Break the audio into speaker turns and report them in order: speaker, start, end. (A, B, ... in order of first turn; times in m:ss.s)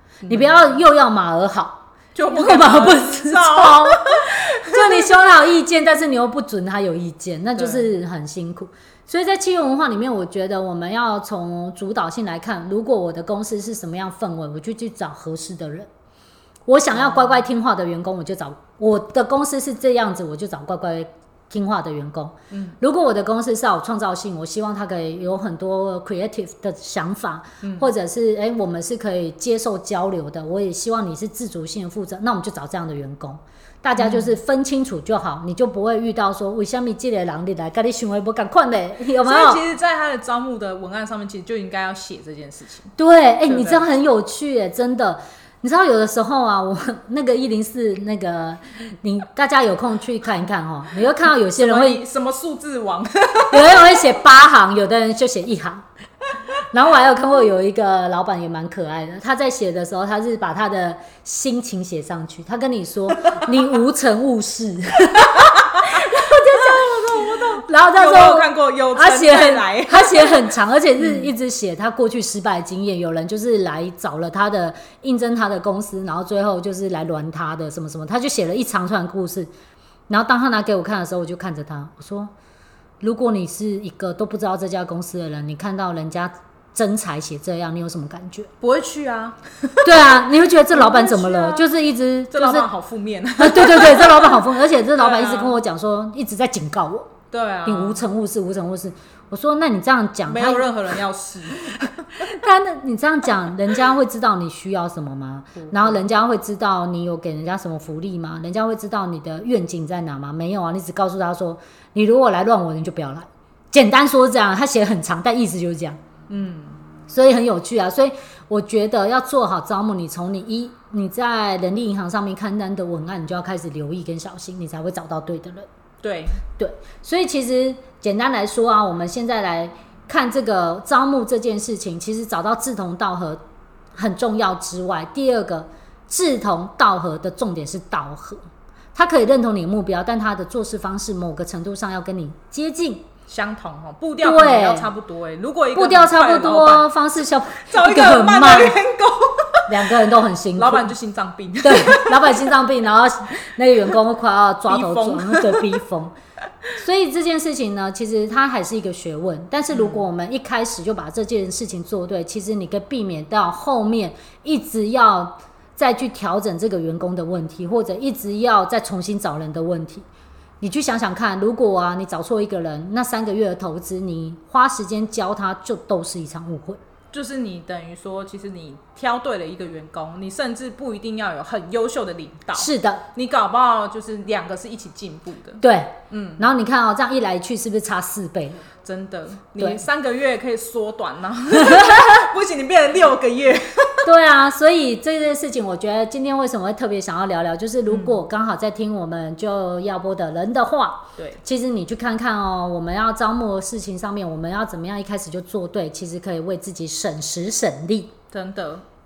0:00.2-0:00.7 A
0:00.3-0:15.9 B
0:02.1-0:05.1 A
0:07.6-0:07.9 A
0:16.6-0:39.6 B
0:16.9-0:17.3 A
0:22.5-0:22.8 A
0:27.6-0:27.9 A
0:34.0-0:34.3 A
0:39.2-0:42.9 A
0:43.0-0:52.0 B
0:43.4-0:43.8 A
0:51.5-0:53.9 A
0:53.5-0:55.8 B
0:56.7-1:19.5 B
1:03.2-1:03.6 A
1:05.4-1:11.3 A
1:20.1-1:22.3 B
1:23.0-1:28.5 B
1:28.6-1:30.1 A
1:29.8-1:32.7 B
1:30.7-1:31.7 A
1:32.3-1:35.6 A
1:33.4-1:37.1 B
1:37.3-1:38.0 A
1:37.6-1:40.7 B
1:40.3-1:42.2 A
1:42.2-1:56.0 B
1:45.6-1:46.0 A
1:56.3-1:56.8 A
1:57.1-2:05.7 B
2:06.0-2:06.4 A
2:06.6-2:13.4 B
2:13.9-2:18.4 B
2:18.9-2:23.0 B
2:23.3-2:29.9 A
2:24.2-2:24.9 B
2:25.7-2:28.8 B
2:29.7-2:30.9 B
2:30.6-2:32.5 A
2:31.6-2:36.1 B
2:34.7-2:35.7 A
2:36.8-2:50.0 B
2:39.7-2:40.0 A
2:50.6-2:56.8 B
2:57.1-3:06.5 A
3:02.5-3:03.0 B
3:05.6-3:08.6 B
3:08.8-3:14.1 A
3:11.6-3:12.2 B
3:14.0-3:28.1 B
3:17.9-3:18.2 A
3:28.3-3:28.8 A